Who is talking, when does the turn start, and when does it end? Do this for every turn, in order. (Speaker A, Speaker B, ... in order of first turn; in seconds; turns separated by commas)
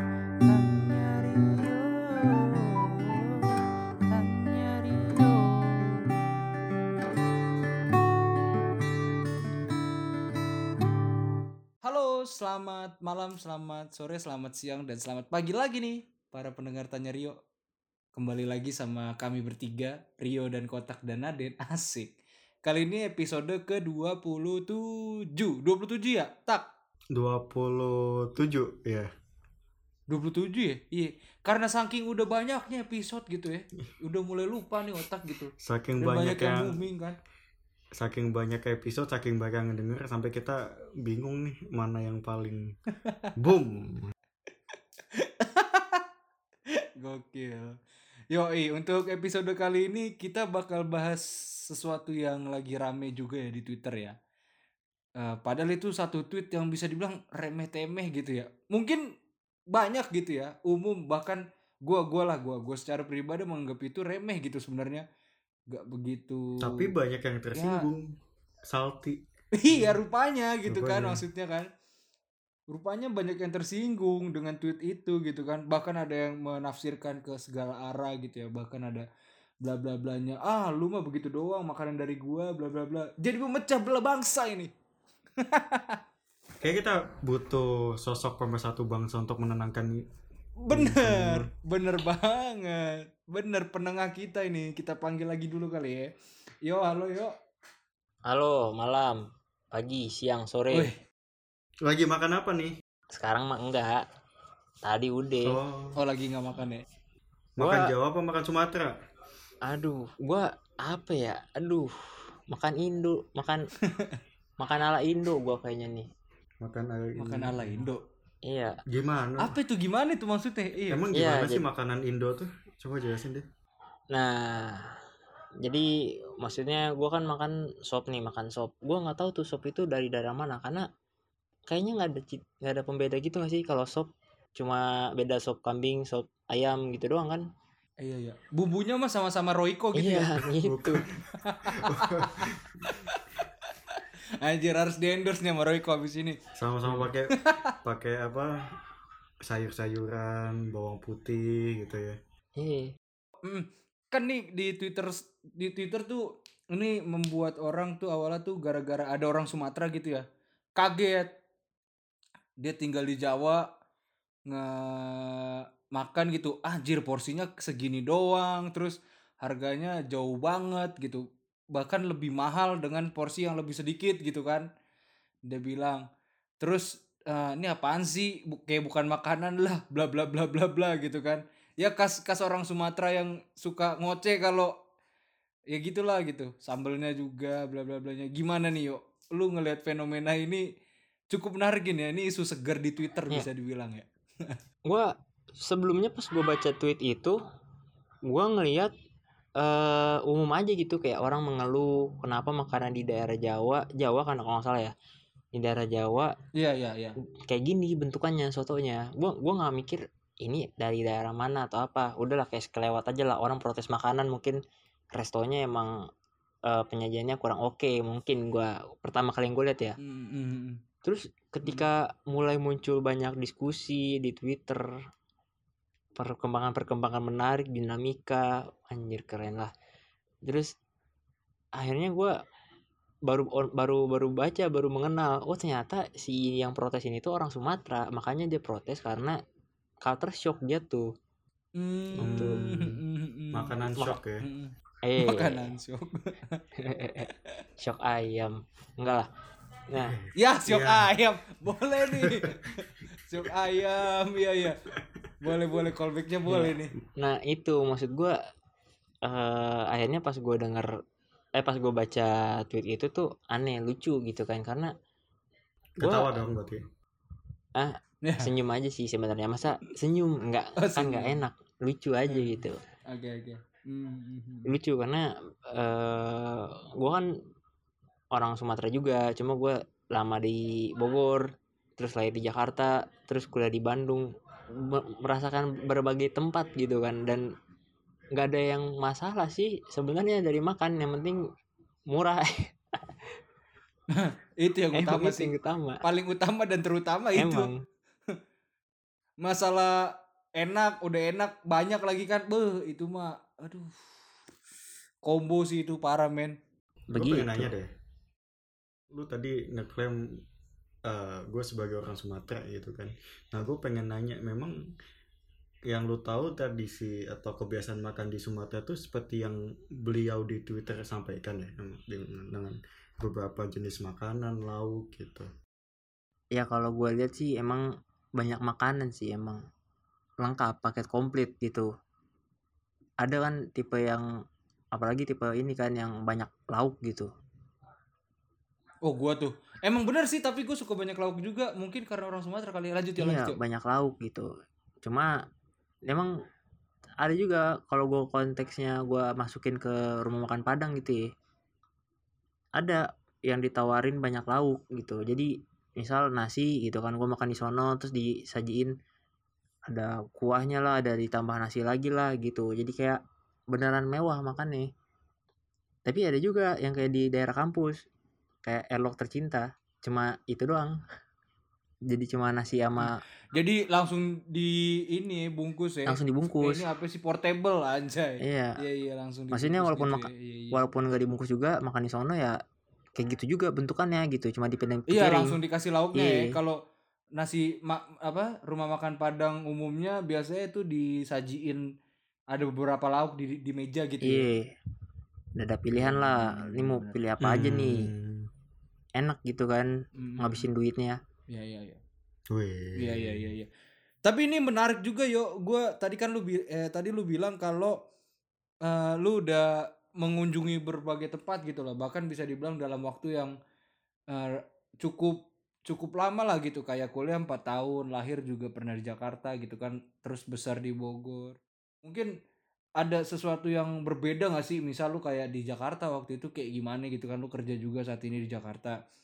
Speaker A: 0.4-6.2, Speaker A: 11.8-17.4, Speaker A: 18.1-22.1, Speaker A: 22.6-26.7, Speaker B: 27.1-29.1, Speaker A: 30.1-37.2, Speaker B: 35.6-36.8, Speaker B: 38.0-42.7, Speaker A: 43.0-43.3, Speaker B: 43.4-44.1, Speaker A: 44.7-46.0, Speaker A: 47.0-47.8, Speaker A: 48.3-54.1, Speaker A: 55.2-59.0, Speaker A: 59.7-65.0, Speaker A: 65.7-66.9, Speaker B: 66.6-68.1, Speaker A: 67.5-67.8, Speaker B: 68.7-70.0, Speaker A: 69.5-71.7, Speaker B: 70.7-71.2, Speaker A: 72.7-79.1, Speaker A: 79.6-84.7, Speaker A: 85.4-86.0, Speaker B: 86.6-90.0, Speaker A: 90.6-96.1, Speaker B: 90.7-91.5, Speaker A: 96.6-97.3, Speaker C: 98.3-99.2, Speaker C: 99.7-100.9, Speaker B: 101.8-102.8, Speaker C: 103.1-104.0, Speaker C: 104.8-105.6, Speaker B: 105.4-106.0, Speaker A: 106.0-106.8, Speaker B: 107.6-108.9, Speaker C: 107.6-107.9, Speaker C: 109.7-113.7, Speaker A: 113.9-114.2, Speaker C: 114.6-116.1, Speaker B: 116.6-117.8, Speaker A: 117.2-118.0, Speaker C: 118.5-118.8, Speaker B: 118.9-119.6, Speaker A: 119.4-121.0, Speaker B: 120.9-123.5, Speaker C: 121.1-121.6, Speaker C: 124.1-125.0, Speaker C: 125.6-125.9, Speaker C: 126.4-130.9, Speaker C: 131.7-137.5, Speaker A: 138.0-140.4, Speaker C: 139.9-141.0, Speaker B: 140.5-143.0, Speaker A: 141.4-142.3, Speaker A: 142.8-147.7, Speaker B: 146.5-148.6, Speaker B: 149.4-152.2, Speaker C: 152.6-152.9, Speaker A: 153.4-160.2, Speaker A: 160.8-161.3, Speaker A: 162.6-163.7, Speaker A: 164.5-174.7, Speaker A: 175.5-176.0, Speaker A: 176.6-184.7, Speaker A: 185.7-190.7, Speaker A: 191.3-194.6, Speaker C: 194.9-197.4, Speaker C: 198.3-198.9, Speaker C: 199.6-204.9, Speaker C: 205.5-206.3, Speaker A: 206.5-207.1, Speaker C: 207.5-214.6, Speaker C: 215.1-216.1, Speaker C: 216.7-220.0, Speaker A: 220.0-220.8, Speaker C: 221.0-225.0, Speaker C: 226.2-229.7, Speaker C: 230.4-230.7, Speaker C: 231.8-232.3, Speaker C: 233.3-239.4, Speaker C: 240.0-241.1, Speaker A: 241.7-246.6, Speaker C: 242.2-242.6, Speaker B: 242.2-243.0, Speaker B: 243.5-244.4, Speaker C: 245.0-245.7, Speaker C: 246.8-249.3, Speaker C: 249.9-250.2, Speaker B: 249.9-251.1, Speaker A: 250.4-254.8, Speaker B: 252.0-252.6, Speaker A: 255.4-256.9, Speaker C: 256.5-258.4, Speaker C: 259.2-260.9, Speaker C: 261.6-264.9, Speaker B: 266.0-266.8, Speaker C: 266.0-266.4, Speaker C: 267.8-272.8, Speaker A: 268.2-268.5, Speaker A: 270.8-271.4, Speaker A: 272.3-274.7, Speaker C: 274.7-277.3, Speaker C: 278.3-281.4, Speaker C: 282.0-287.4, Speaker C: 288.3-291.4, Speaker C: 292.1-292.7, Speaker A: 294.1-297.7, Speaker C: 294.9-296.0, Speaker C: 297.4-297.8, Speaker A: 299.4-304.0, Speaker A: 305.2-306.6, Speaker C: 307.1-307.7, Speaker B: 307.1-307.9, Speaker B: 309.1-310.4, Speaker B: 311.1-314.8, Speaker B: 315.9-325.5, Speaker C: 326.6-329.6, Speaker C: 330.4-331.9, Speaker C: 333.2-334.3, Speaker C: 334.9-337.3, Speaker A: 339.0-343.6, Speaker C: 343.2-344.5, Speaker C: 345.0-345.4, Speaker C: 346.1-346.3, Speaker C: 347.2-351.2, Speaker C: 352.8-358.9, Speaker C: 359.9-363.2, Speaker C: 363.7-364.9, Speaker C: 366.1-368.0, Speaker C: 368.6-371.0, Speaker C: 372.1-373.2, Speaker A: 373.0-380.8, Speaker C: 376.1-376.8, Speaker C: 378.4-378.8, Speaker C: 379.5-382.6, Speaker C: 383.2-385.6, Speaker A: 385.1-386.8, Speaker C: 386.1-386.6, Speaker A: 387.4-391.8, Speaker A: 392.5-394.5, Speaker C: 394.2-394.7, Speaker C: 395.6-398.1, Speaker B: 397.4-398.5, Speaker C: 399.2-401.2, Speaker A: 400.2-400.7, Speaker A: 401.5-402.0, Speaker B: 402.5-403.4, Speaker A: 403.0-403.7, Speaker A: 404.2-408.0, Speaker A: 408.8-413.5, Speaker A: 414.3-422.3, Speaker A: 423.0-429.0